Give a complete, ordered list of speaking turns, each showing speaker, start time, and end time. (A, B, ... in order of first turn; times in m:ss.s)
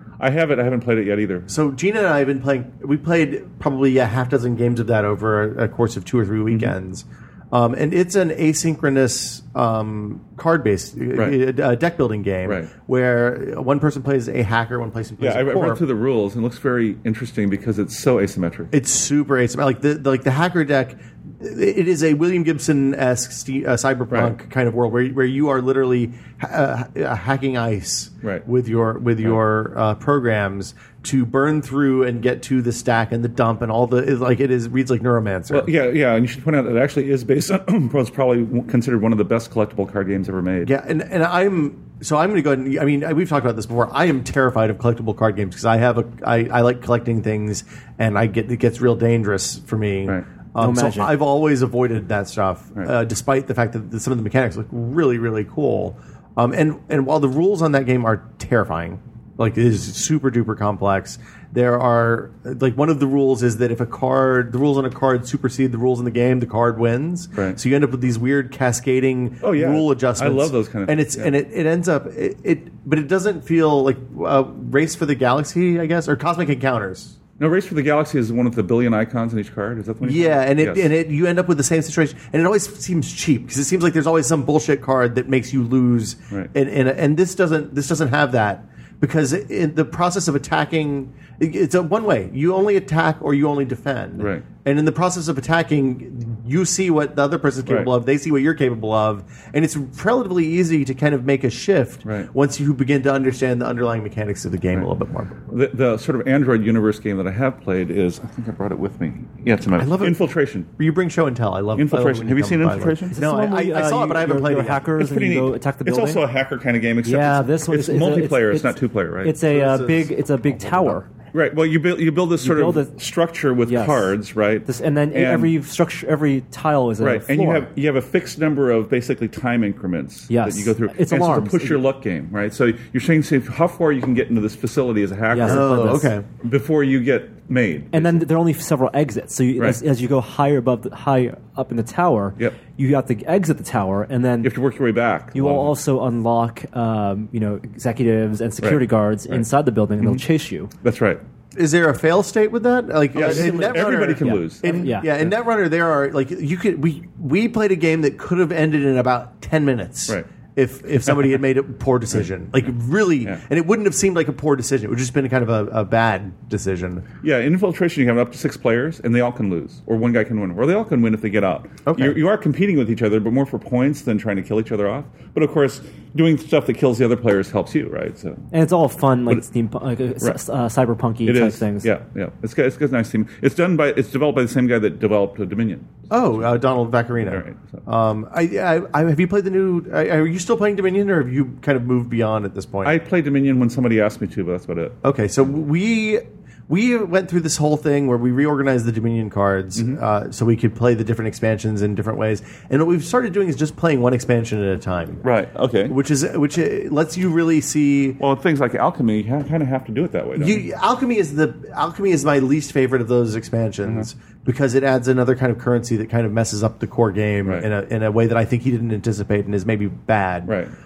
0:00.2-0:01.5 A
0:01.5-0:15.8 B
0:06.5-0:06.7 A
0:11.1-0:11.4 A
0:12.4-0:12.7 A
0:15.2-0:18.7 A
0:18.7-0:35.7 B
0:35.5-0:40.7 A
0:40.6-1:17.2 B
0:50.6-0:51.2 C
1:09.4-1:11.3 A
1:17.4-1:20.9 A
1:20.0-1:45.3 B
1:34.2-1:34.5 A
1:37.6-1:37.9 A
1:42.0-1:42.3 A
1:45.5-1:50.7 A
1:49.8-1:54.9 B
1:51.7-1:53.2 A
1:53.1-1:56.2 C
1:54.9-1:59.4 A
1:57.0-2:01.1 C
1:59.4-2:01.0 B
2:01.3-2:05.5 A
2:02.4-2:02.9 C
2:03.6-2:07.7 C
2:07.0-2:18.2 A
2:10.3-2:11.8 C
2:15.3-2:16.1 C
2:15.4-2:16.3 B
2:17.9-2:24.5 C
2:24.4-2:25.7 A
2:25.3-2:30.7 C
2:28.6-2:29.4 A
2:30.8-2:31.2 A
2:31.5-2:47.0 B
2:33.1-2:34.9 A
2:33.2-2:35.2 C
2:47.2-2:58.4 A
2:51.8-2:52.2 B
2:58.5-3:01.9 C
3:01.2-3:06.4 A
3:06.1-3:13.0 B
3:07.2-3:07.8 A
3:12.8-3:15.0 A
3:15.0-3:25.2 B
3:25.2-3:26.0 A
3:25.9-3:28.2 B
3:28.2-3:30.7 A
3:30.4-3:40.6 B
3:40.4-3:40.7 A